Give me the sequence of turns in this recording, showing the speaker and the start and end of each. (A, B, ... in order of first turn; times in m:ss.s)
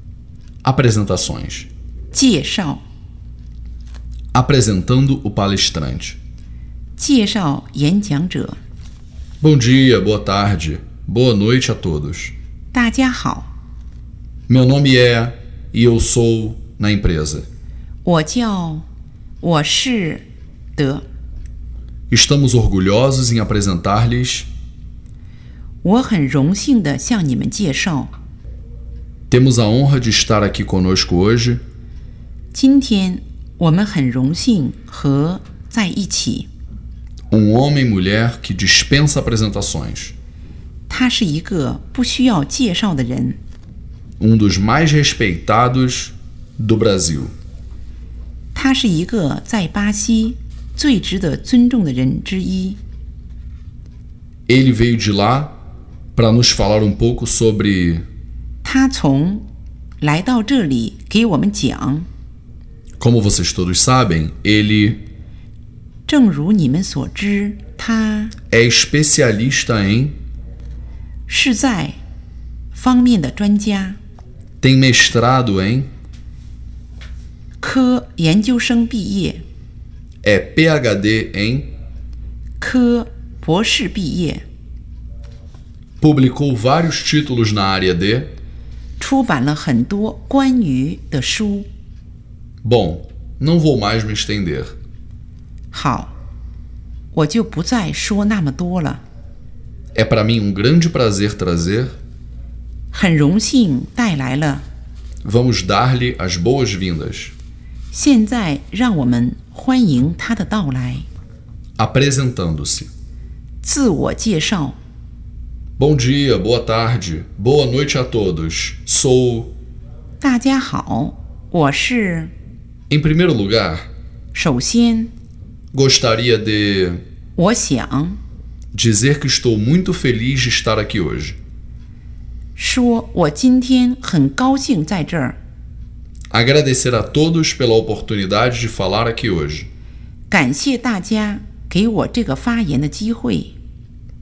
0:00.6-0:01.7 A
0:02.1-0:02.8 B
0:04.3-0:06.2 A
0:07.0-0:08.6 B
0:09.4-0:12.3 A
0:12.7-0:13.5 B
0:14.5-0:17.4 A
0:18.0-0:18.8 B
0:19.4-0:20.2 B
0:20.8-0:21.0 B
0:22.1-0:24.5 A
0:25.8-0:28.1 B
0:29.3-0:31.6 A
0:32.5-0:36.5 B
0:37.3-0:40.1 A
0:40.9-0:43.4 B
0:44.2-0:47.3 A
0:48.5-0:52.8 B
0:54.5-0:55.6 A
0:56.1-0:58.0 A
0:58.6-0:59.4 B
1:00.0-1:02.1 B
1:03.0-1:05.0 A
1:06.1-1:08.3 B
1:08.5-1:10.2 A
1:11.3-1:12.0 B
1:12.7-1:14.0 B
1:14.6-1:15.9 A
1:17.6-1:19.4 B
1:20.2-1:21.7 A
1:22.6-1:24.4 B
1:26.0-1:28.3 A
1:29.0-1:31.7 B
1:32.6-1:34.7 A
1:35.7-1:36.1 B
1:37.1-1:39.0 B
1:39.9-1:42.0 A
1:42.9-1:44.6 B
1:45.2-1:47.3 A
1:47.9-1:51.1 B
1:51.8-1:52.9 A
1:53.6-1:54.8 B
1:55.8-1:59.5 A
2:00.2-2:02.3 B
2:02.9-2:03.9 A
2:04.3-2:05.1 B
2:05.7-2:07.0 A
2:07.4-2:08.2 B
2:08.7-2:11.4 A
2:12.6-2:15.4 B
2:16.3-2:19.7 A
2:20.3-2:23.5 B